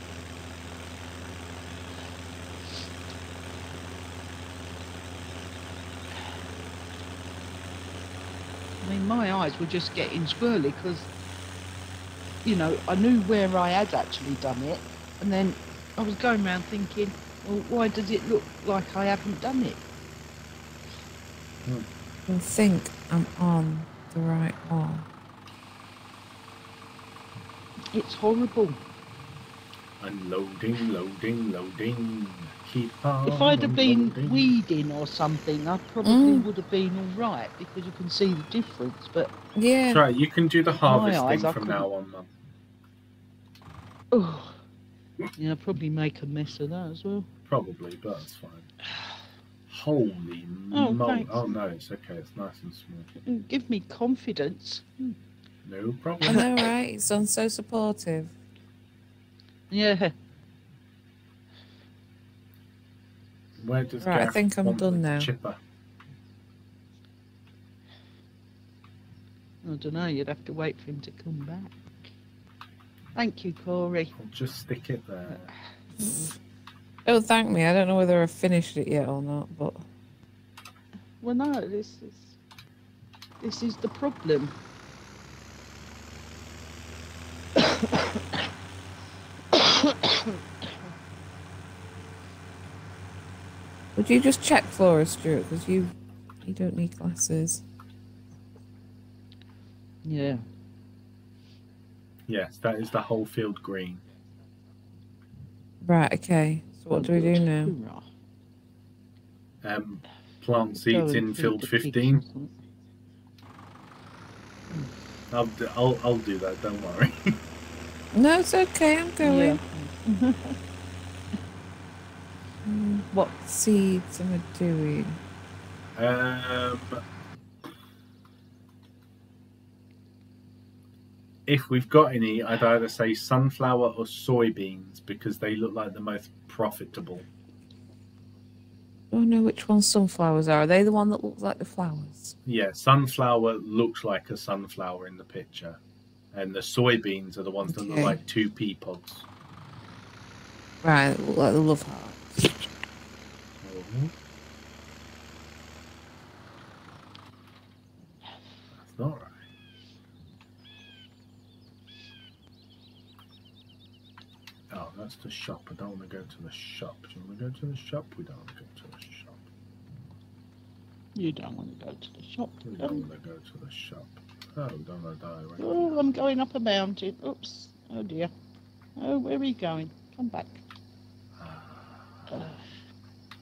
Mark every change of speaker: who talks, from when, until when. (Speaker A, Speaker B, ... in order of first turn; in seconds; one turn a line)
Speaker A: 8.8-11.1
Speaker A: 12.4-19.8
Speaker B: 22.3-25.1
Speaker A: 27.9-28.8
Speaker C: 30.0-34.5
Speaker A: 33.2-39.3
Speaker B: 36.0-36.5
Speaker B: 39.5-40.0
Speaker C: 39.9-42.3
Speaker A: 40.8-41.9
Speaker A: 44.1-44.6
Speaker A: 45.4-47.3
Speaker C: 47.5-48.7
Speaker C: 49.7-53.1
Speaker A: 50.7-51.5
Speaker A: 53.2-55.2
Speaker C: 55.6-56.4
Speaker A: 56.2-56.7
Speaker B: 56.2-58.3
Speaker A: 59.7-60.1
Speaker C: 63.6-65.6
Speaker B: 64.0-65.3
Speaker A: 69.6-72.0
Speaker A: 73.1-74.1
Speaker C: 74.2-75.5
Speaker A: 76.0-76.3
Speaker B: 76.0-76.3
Speaker B: 77.0-79.8
Speaker A: 81.2-82.3
Speaker A: 83.4-84.5
Speaker A: 87.5-88.5
Speaker A: 89.5-90.7
Speaker B: 94.0-97.6
Speaker A: 100.0-100.4
Speaker C: 102.3-104.0
Speaker B: 105.8-107.7
Speaker A: 106.9-108.1
Speaker C: 109.6-112.2
Speaker A: 110.7-112.5
Speaker C: 115.3-117.3
Speaker B: 118.1-119.6
Speaker A: 119.2-120.6
Speaker B: 122.7-125.2
Speaker C: 126.0-127.0
Speaker C: 131.5-137.2
Speaker B: 139.1-142.3
Speaker C: 142.4-145.8
Speaker C: 146.3-149.3
Speaker B: 147.7-148.2
Speaker B: 150.8-152.7
Speaker C: 153.6-154.1
Speaker C: 158.8-159.4
Speaker C: 164.7-169.4
Speaker A: 171.1-173.1
Speaker C: 172.6-176.1
Speaker A: 175.6-178.3
Speaker A: 179.0-180.6
Speaker C: 181.4-182.4
Speaker A: 182.3-182.7